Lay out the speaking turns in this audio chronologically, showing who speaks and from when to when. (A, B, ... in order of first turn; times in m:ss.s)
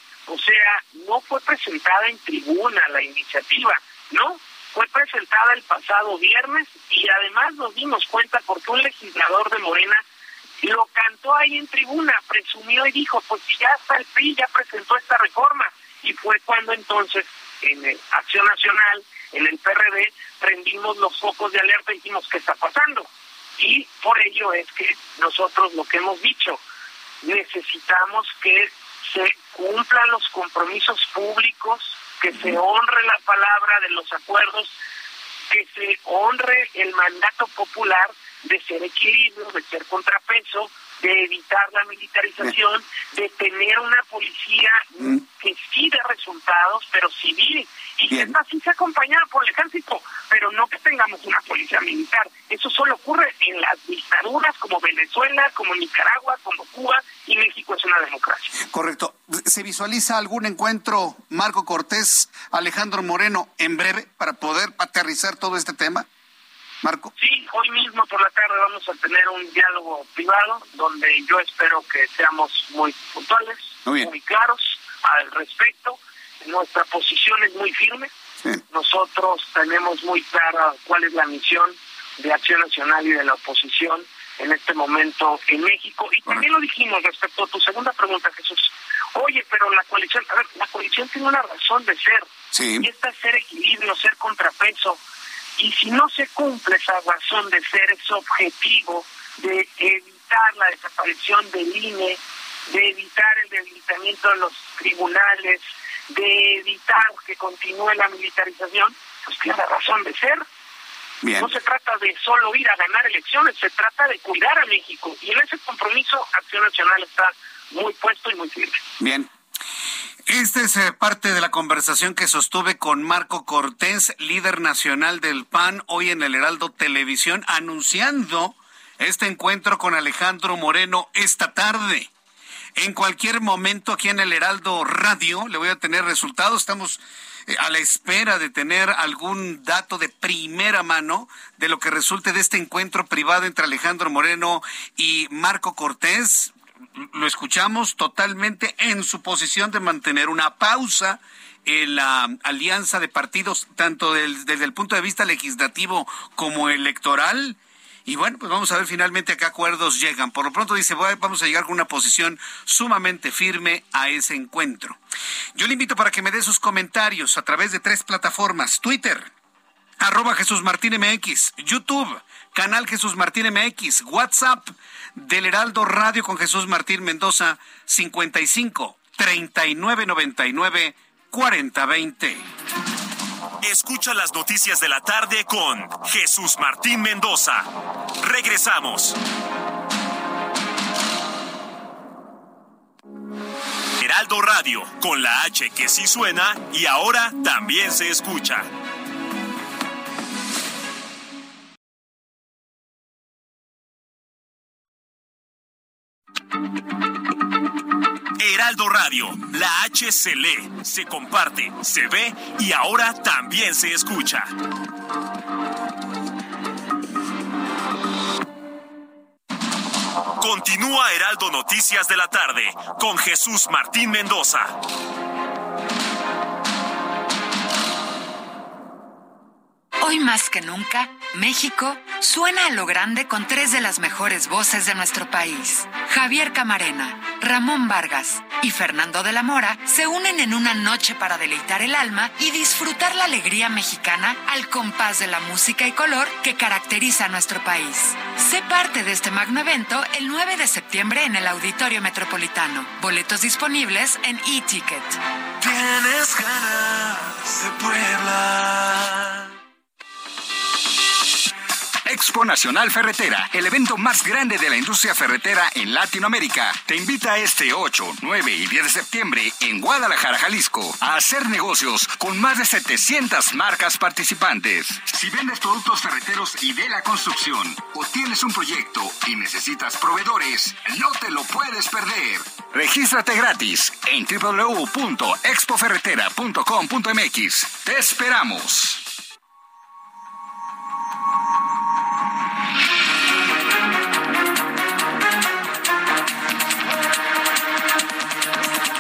0:00.3-0:10.0 A
0:10.6-0:26.6 A
0:27.2-0:34.7 A
0:35.5-0:58.5 A
0:48.1-0:48.4 B
0:58.6-1:06.1 B
1:06.8-1:07.1 B
1:07.2-1:18.1 A
1:13.8-1:14.1 B
1:18.7-1:32.3 A
1:32.5-1:32.9 B
1:32.8-1:35.0 A
1:35.6-1:50.4 A
1:51.2-1:51.5 B
1:51.4-1:58.8 A
1:59.0-1:59.3 B
2:00.3-2:12.1 B
2:12.8-2:45.0 B
2:45.6-2:49.3 B
2:50.0-3:02.4 B
3:03.6-3:09.2 C
3:14.0-3:18.7 C
3:28.4-3:34.6 C
3:40.4-3:44.8 C
3:50.0-4:15.2 D
4:15.6-4:18.9 E
4:22.1-4:49.0 E